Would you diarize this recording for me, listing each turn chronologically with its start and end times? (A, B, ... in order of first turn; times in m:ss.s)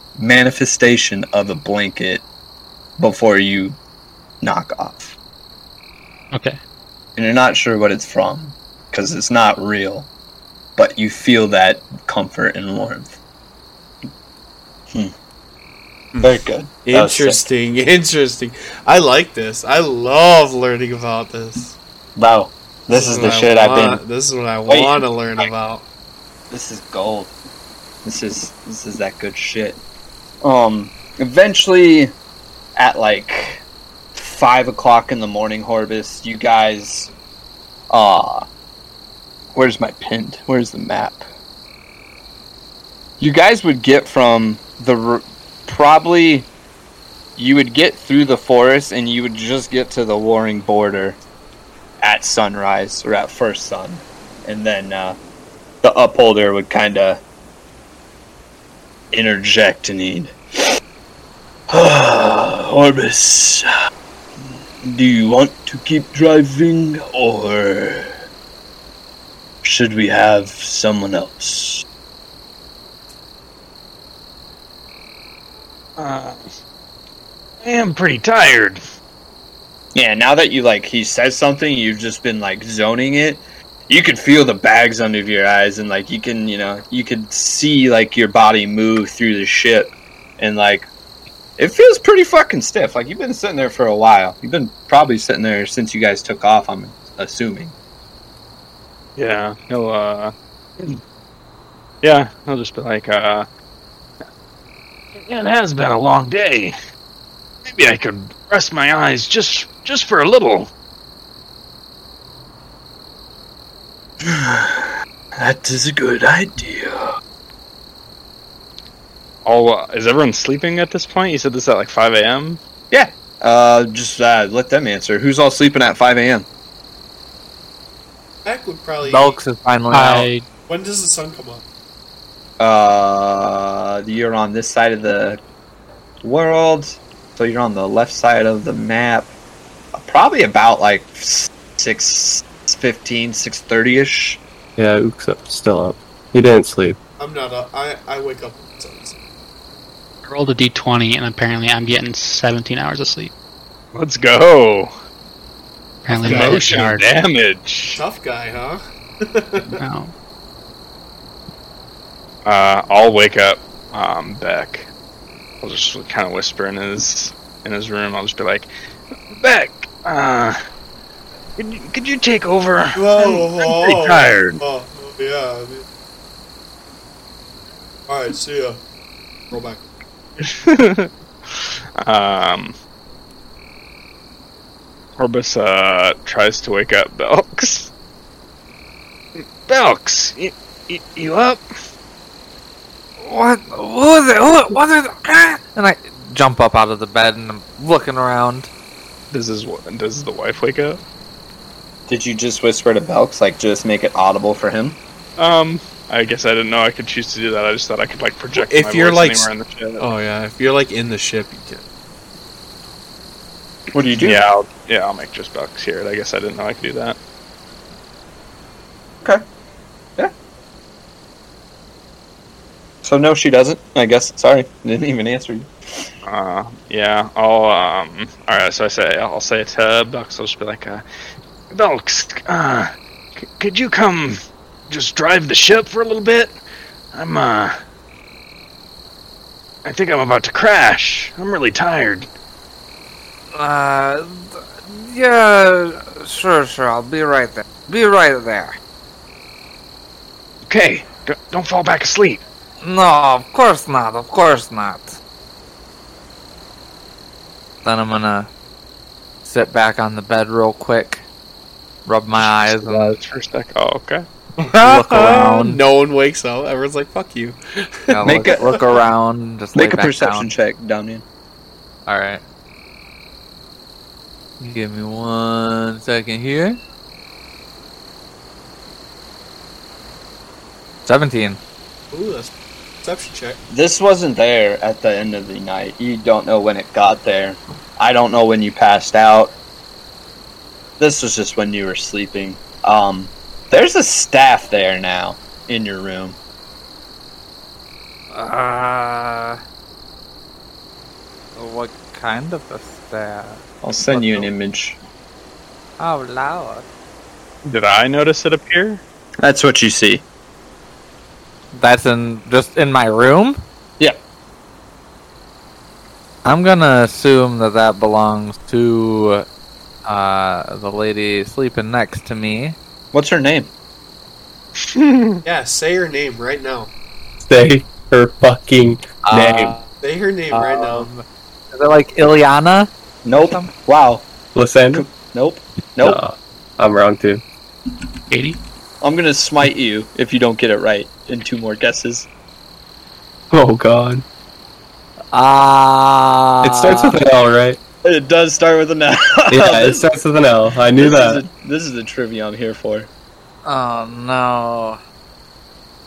0:00.2-0:02.2 A
0:03.0-0:03.8 A
0:04.4-0:05.2 A
0:06.3-0:06.6 B
0:07.2-0:10.1 A
0:10.8-0:13.1 A
0:16.1-0:21.8 C
0:16.2-0:17.4 A
0:22.2-0:24.0 A
0:22.9-0:25.8 C
0:24.7-0:25.5 A
0:26.5-0:27.3 A
0:28.0-0:29.8 A
0:30.4-0:32.1 A
0:32.8-0:33.6 A
0:34.1-0:37.1 A
0:37.9-0:38.4 A
0:39.5-0:41.2 A
0:43.2-0:46.5 A
0:47.4-0:51.2 A
0:52.0-0:55.2 A
0:55.8-0:57.2 A
0:59.1-1:00.3 A
1:01.7-1:03.7 A
1:04.8-1:08.1 A
1:09.6-1:11.8 A
1:16.0-1:16.4 D
1:17.6-1:18.8 D
1:19.9-1:30.9 A
1:31.6-1:37.7 A
1:39.2-1:41.0 D
1:42.0-1:43.5 D
1:45.1-1:46.7 D
1:47.6-1:50.7 D
1:54.2-1:57.1 A
1:59.4-2:02.6 D
2:02.9-2:06.5 A
2:08.4-2:09.4 C
2:09.0-2:10.3 E
2:09.9-2:10.5 B
2:10.7-2:11.6 C
2:12.6-2:15.4 A
2:16.2-2:19.3 A
2:19.9-2:24.4 A
2:24.8-2:27.0 F
2:27.2-2:29.2 C
2:30.2-2:33.3 B
2:33.9-2:34.9 D
2:36.0-2:37.0 B
2:36.1-2:38.0 D
2:36.2-2:36.7 C
2:37.9-2:39.8 C
2:39.8-2:40.1 B
2:42.4-2:44.9 D
2:45.6-2:48.7 D
2:49.3-2:50.6 D
2:51.6-2:54.6 D
2:53.0-2:55.8 C
2:58.1-2:58.8 C
2:59.5-2:59.8 C
3:00.4-3:02.7 D
3:05.2-3:07.9 D
3:09.4-3:11.6 D
3:13.2-3:18.7 E
3:19.3-3:21.0 D
3:22.1-3:25.0 A
3:25.4-3:30.1 D
3:28.5-3:29.5 C
3:30.0-3:31.8 C
3:33.9-3:34.4 A
3:34.2-3:37.2 D
3:43.0-3:46.1 A
3:46.2-3:51.0 D
3:51.7-3:54.4 D
3:54.9-3:56.6 D
3:57.1-3:57.7 D
3:59.8-4:02.3 D
4:03.5-4:08.7 E
4:10.7-4:12.4 D
4:12.8-4:15.2 E
4:17.8-4:18.5 E
4:19.4-4:21.2 E
4:22.0-4:23.2 E
4:22.4-4:24.2 D
4:24.6-4:29.0 C
4:24.7-4:25.8 E
4:28.1-4:30.5 E
4:28.2-4:28.8 A
4:29.7-4:31.2 A
4:32.1-4:32.4 E
4:34.6-4:36.8 E
4:41.0-4:41.6 E
4:42.1-4:43.6 C
4:43.7-4:49.5 A
4:51.0-4:56.4 A
4:58.3-4:59.6 E
5:01.6-5:04.5 E
5:03.8-5:05.0 A
5:06.0-5:06.8 E
5:07.6-5:09.0 D
5:09.4-5:10.2 A
5:11.7-5:13.6 E
5:16.4-5:19.4 E
5:20.0-5:22.8 E
5:23.1-5:23.7 A
5:24.8-5:25.4 D
5:25.4-5:26.9 C
5:27.4-5:29.8 F
5:29.2-5:29.9 E
5:30.0-5:31.1 C
5:30.5-5:33.7 E
5:33.2-5:34.2 A
5:34.5-5:35.0 F
5:34.9-5:36.2 A
5:36.0-5:37.4 F
5:38.3-5:38.6 B
5:39.0-5:42.3 A
5:43.5-5:44.2 F
5:45.3-5:47.2 E
5:46.6-5:47.8 F
5:48.0-5:50.1 A
5:49.5-5:51.4 F
5:51.0-5:53.1 A
5:53.6-5:55.0 E